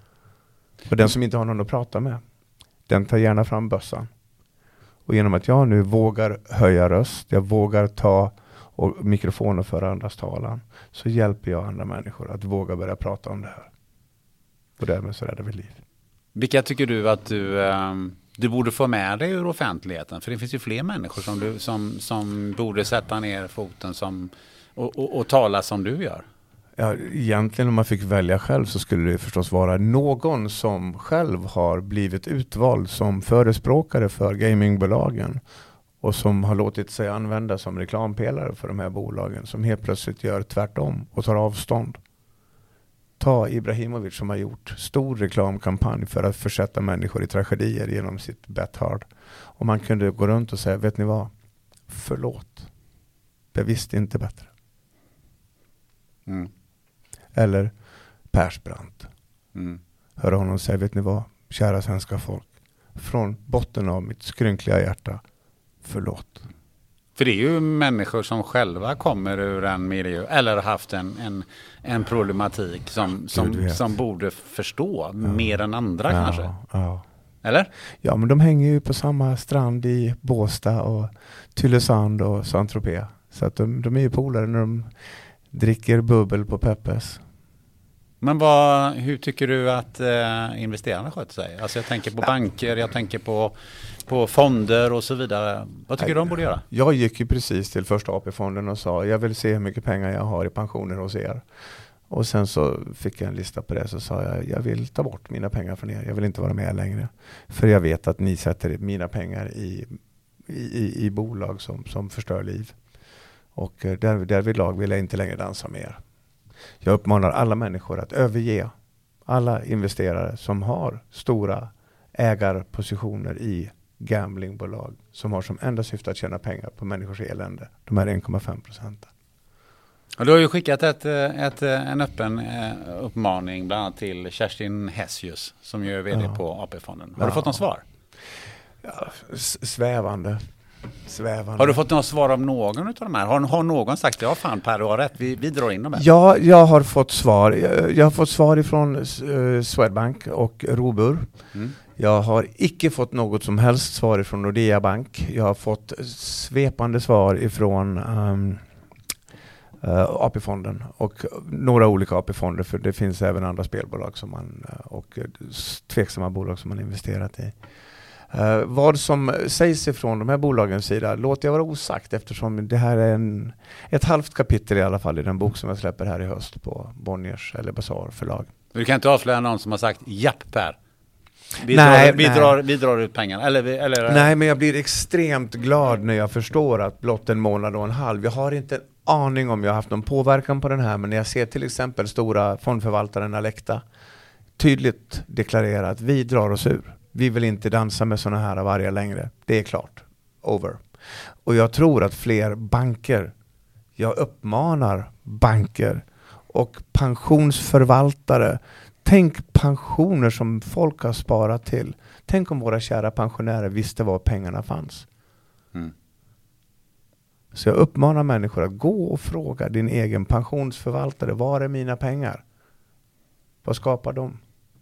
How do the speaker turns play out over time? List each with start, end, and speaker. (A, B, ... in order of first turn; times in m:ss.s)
0:00.9-0:02.2 A
0:02.9-0:04.1 A
0:05.1-0:13.7 A
0:14.8-0:15.8 A
0:16.4-0:26.2 B
0:26.8-0:35.4 A
0:36.0-0:42.0 A
0:43.2-0:51.3 A
0:51.9-0:52.7 A
0:53.5-0:54.5 A
0:57.3-0:57.7 A
0:58.3-0:59.1 A
0:59.6-0:59.8 B
1:00.2-1:05.2 A
1:05.8-1:06.5 A
1:07.2-1:16.5 B
1:13.3-1:13.9 A
1:16.1-1:17.0 A
1:17.4-1:17.7 B
1:18.0-1:24.9 A
1:25.5-1:27.2 A
1:28.2-1:36.6 B
1:36.0-1:41.4 A
1:42.1-1:52.7 A
1:53.6-1:56.0 A
1:56.8-1:58.7 A
1:59.3-2:09.1 A
2:10.2-2:17.8 B
2:17.2-2:17.6 A
2:18.8-2:20.4 A
2:21.0-2:21.8 A
2:21.6-2:26.1 B
2:26.0-2:31.3 A
2:32.0-2:38.6 A
2:39.8-2:47.6 A
2:48.3-2:58.5 A
2:58.7-3:00.8 B
3:01.6-3:04.3 B
3:01.7-3:02.6 A
3:04.1-3:13.8 A
3:14.6-3:20.8 A
3:21.4-3:23.3 A
3:24.0-3:35.1 A
3:37.5-3:42.4 A
3:43.6-3:44.4 A